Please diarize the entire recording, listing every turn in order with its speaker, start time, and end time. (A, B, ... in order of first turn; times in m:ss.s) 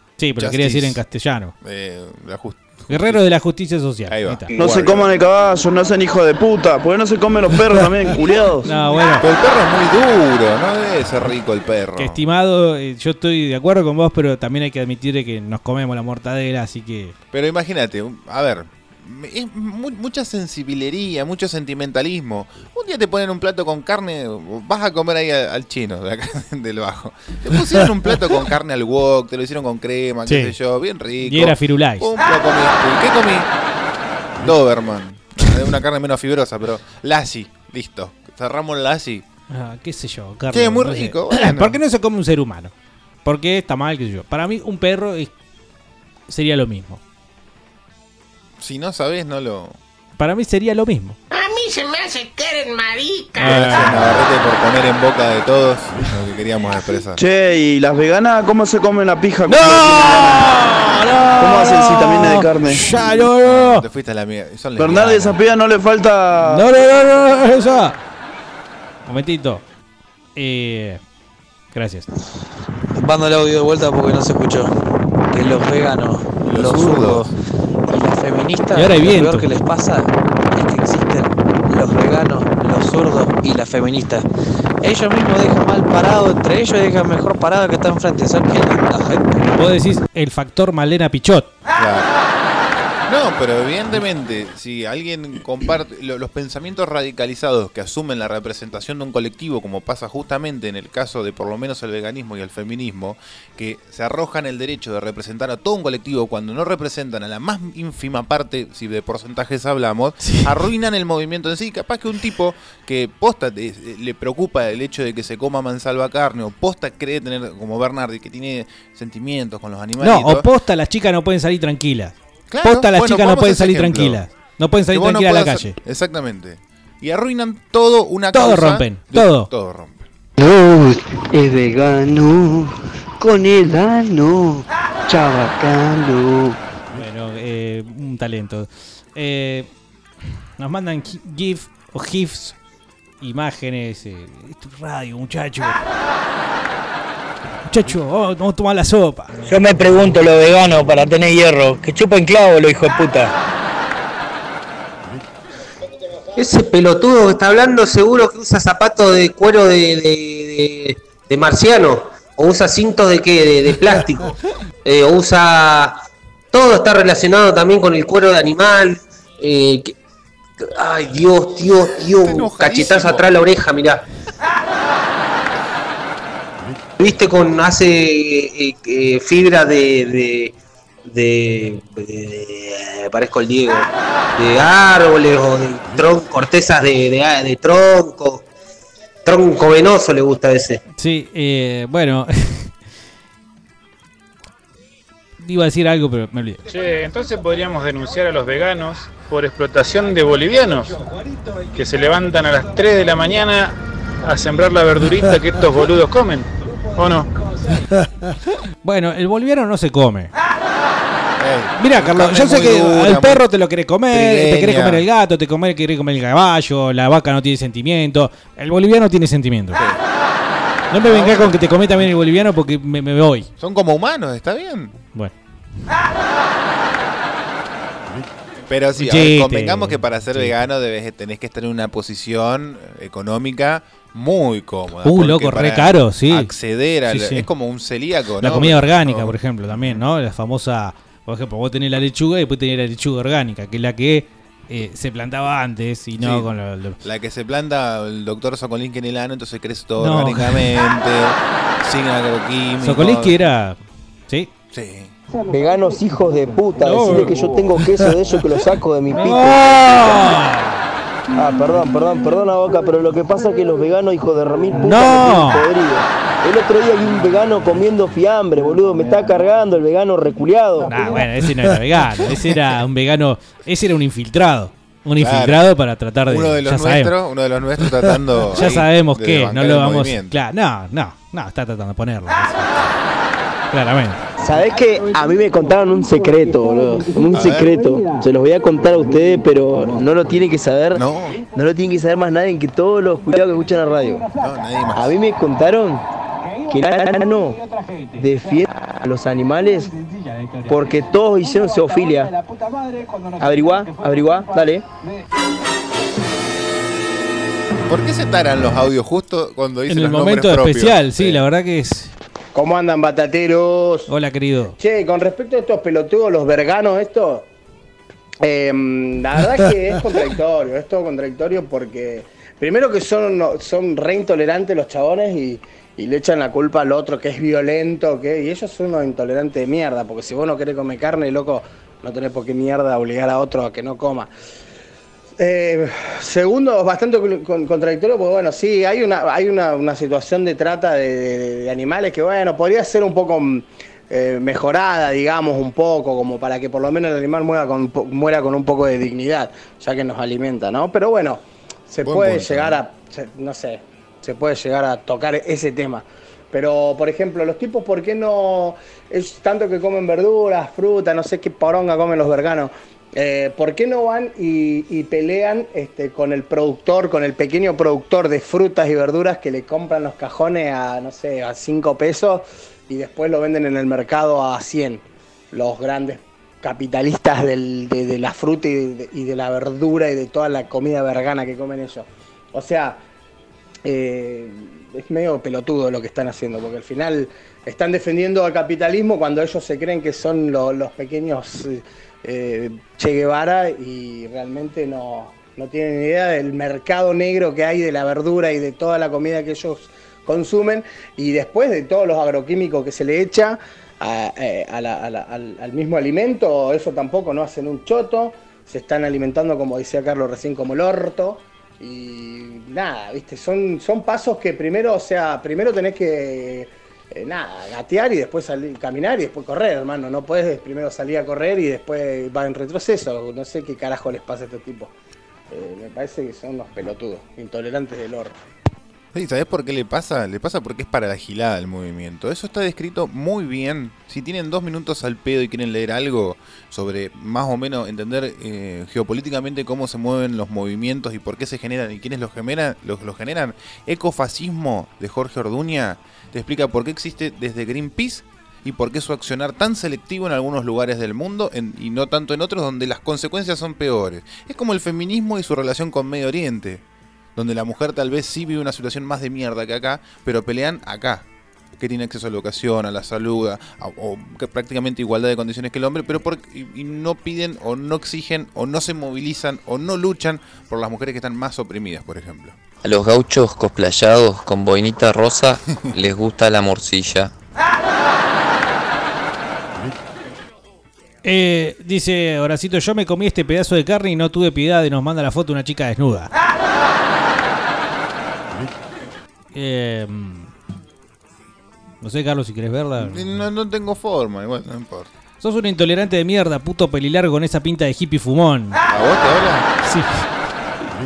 0:00.2-0:01.5 A
0:00.4-0:01.0 B
0:01.6-0:03.2 B
0:02.9-0:04.6 A
0:04.1-0:05.1 B
0:04.6-0:08.6 C
0:08.6-0:09.2 A
0:09.1-0:12.2 B
0:12.0-0:17.1 A
0:17.3-0:33.5 B
0:30.3-0:30.5 A
0:31.2-0:32.1 A
0:34.4-0:39.2 B
0:39.5-0:42.7 A
0:40.5-0:41.8 B
0:43.2-0:45.3 A
0:46.3-0:47.0 A
0:48.6-0:49.8 B
0:50.2-0:51.2 A
0:52.6-0:52.9 D
0:53.4-0:54.2 A
0:53.4-0:57.2 B
0:57.2-1:00.4 C
0:59.5-1:03.8 A
1:01.4-1:02.7 C
1:03.4-1:05.4 B
1:04.8-1:06.6 C
1:06.5-1:08.0 A
1:09.0-1:09.6 A
1:10.4-1:11.0 A
1:11.7-1:12.1 A
1:12.9-1:14.7 E
1:15.3-1:17.3 E
1:16.4-1:17.3 B
1:17.9-1:24.2 E
1:18.7-1:19.5 A
1:24.8-1:29.3 E
1:29.4-1:31.5 A
1:31.7-1:32.1 B
1:33.1-2:00.4 B
1:50.2-1:50.5 A
2:00.0-2:05.8 A
2:02.5-2:04.2 B
2:04.9-2:10.1 B
2:08.3-2:09.5 A
2:10.4-2:16.6 F
2:17.0-2:19.7 A
2:20.6-2:22.6 A
2:23.2-2:25.8 A
2:27.7-2:29.3 A
2:29.4-2:33.3 G
2:36.4-2:44.3 H
2:44.8-2:46.0 H
2:46.5-2:49.9 H
2:50.7-2:54.0 H
2:52.2-2:53.5 B
2:57.0-3:00.5 H
3:01.0-3:08.4 H
3:09.2-3:10.8 H
3:11.0-3:12.7 A
3:15.4-3:16.6 A
3:16.7-3:20.9 I
3:21.7-3:27.3 I
3:28.8-3:30.3 A
3:31.4-3:33.4 B
3:31.8-3:39.8 A
3:34.1-3:35.0 B
3:39.7-3:40.0 B
3:40.9-3:43.5 A
3:41.0-3:41.6 B
3:43.6-3:44.9 B
3:48.7-4:00.0 B
3:49.0-3:50.5 A
3:55.0-3:56.5 A
3:57.1-3:57.5 A
3:58.4-4:07.0 A
4:06.2-4:06.5 B
4:07.0-4:13.4 B
4:10.0-4:10.7 A
4:12.8-4:14.5 A
4:14.7-4:15.1 B
4:15.5-4:20.4 J
4:19.2-4:21.0 A
4:21.4-4:30.9 J
4:24.8-4:25.6 A
4:30.9-4:37.1 A
4:35.2-4:35.6 B
4:36.3-4:40.3 B
4:38.5-4:42.9 A
4:43.7-4:44.2 A
4:44.4-4:51.0 J
4:47.3-4:47.7 B
4:51.0-4:51.4 B
4:51.5-4:54.3 J
4:54.4-4:55.1 B
4:54.9-4:56.0 J
4:56.7-4:57.6 J
4:58.1-4:59.9 J
5:00.7-5:02.3 J
5:03.4-5:04.8 J
5:07.9-5:11.4 B
5:09.9-5:12.1 A
5:12.5-5:14.1 K
5:14.1-5:14.8 A
5:14.8-5:17.4 K
5:18.4-5:34.3 K
5:35.4-6:23.0 K
5:52.0-5:52.8 B
6:23.8-7:04.9 K
7:05.5-7:08.3 K
7:09.1-7:36.8 B
7:37.3-7:41.2 B
7:41.8-7:52.6 B
7:52.8-7:57.3 D
8:01.2-8:06.3 A
8:09.5-8:10.5 A
8:12.0-8:13.4 A
8:13.0-8:15.1 B
8:15.4-8:18.8 A
8:18.9-8:19.7 B
8:19.8-8:20.3 A